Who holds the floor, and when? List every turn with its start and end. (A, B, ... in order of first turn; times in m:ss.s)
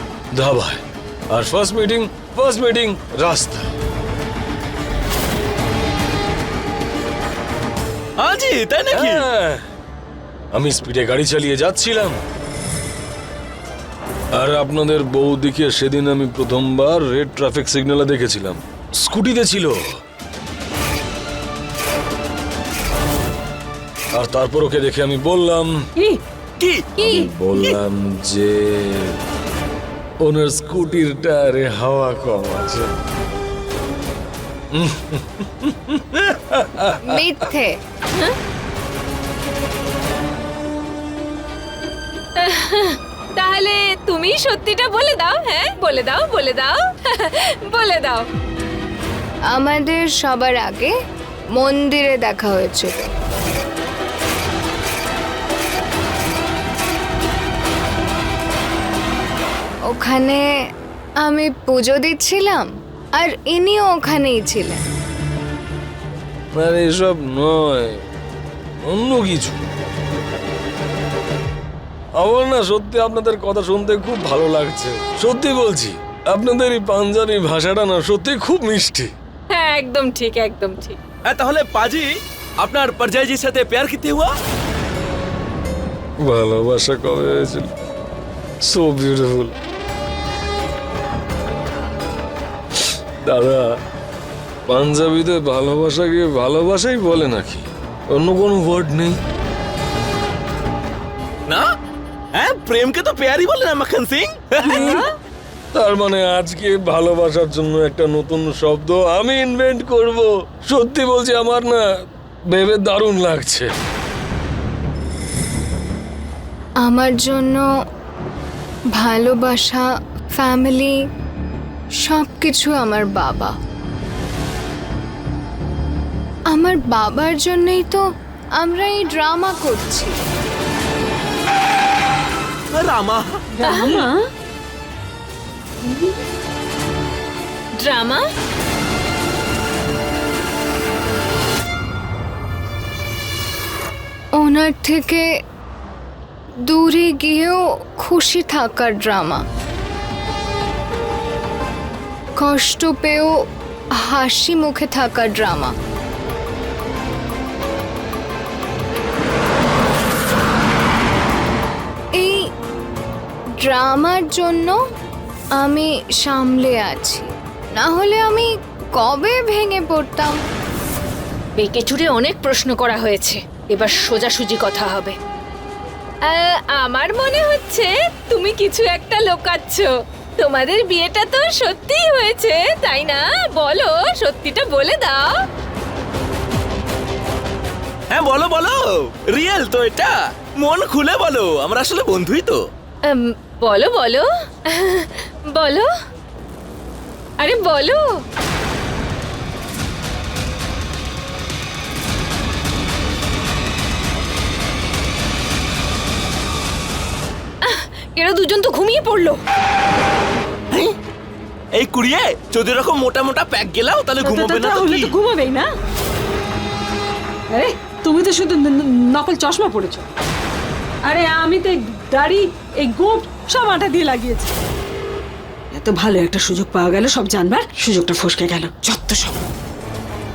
0:00.3-0:03.7 A
0:08.2-0:09.2 B
0:08.9-0:09.6 A
0:10.5-0:12.2 A
0:14.3-0:20.0 A
0:24.1-0:25.9 A
0:26.6-0:27.0 B
0:27.0-0:29.2 A
0:30.2-0:32.9 A
0:34.7-0:37.2 A
0:37.0-0:37.7 C
0:42.4-0:48.3 D
0:49.5-0:50.9 C
0:51.6-0:53.1 C
0:59.9-1:00.4 C
1:01.2-1:02.6 C
1:03.2-1:04.8 C
1:06.5-1:08.0 A
1:08.8-1:09.6 A
1:12.2-1:19.1 A
1:19.5-1:21.0 D
1:21.2-1:22.1 B
1:22.6-1:24.3 B
1:26.2-1:27.7 A
1:28.6-1:29.5 A
1:33.2-1:33.7 A
1:34.7-1:39.2 A
1:42.3-1:45.0 B
1:44.6-1:45.0 E
1:44.6-1:45.0 A
1:45.7-1:51.8 A
1:52.5-1:53.7 A
1:56.8-1:57.6 C
1:59.0-1:59.8 C
2:00.4-2:00.9 C
2:02.0-2:03.5 C
2:06.5-2:08.0 C
2:08.6-2:10.2 C
2:12.7-2:13.4 B
2:13.6-2:14.2 E
2:13.6-2:14.0 D
2:17.8-2:18.2 D
2:24.4-2:25.2 C
2:26.7-2:29.4 C
2:32.4-2:33.3 C
2:34.0-2:35.7 C
2:43.6-2:44.8 C
2:45.6-2:50.4 C
2:51.6-2:55.2 D
2:56.3-3:05.3 D
3:08.1-3:12.6 B
3:13.0-3:15.9 D
3:17.4-3:18.0 D
3:27.6-3:29.4 D
3:31.8-3:35.1 B
3:34.2-3:35.7 E
3:37.5-3:40.1 E
3:41.1-3:44.5 E
3:45.7-3:49.4 E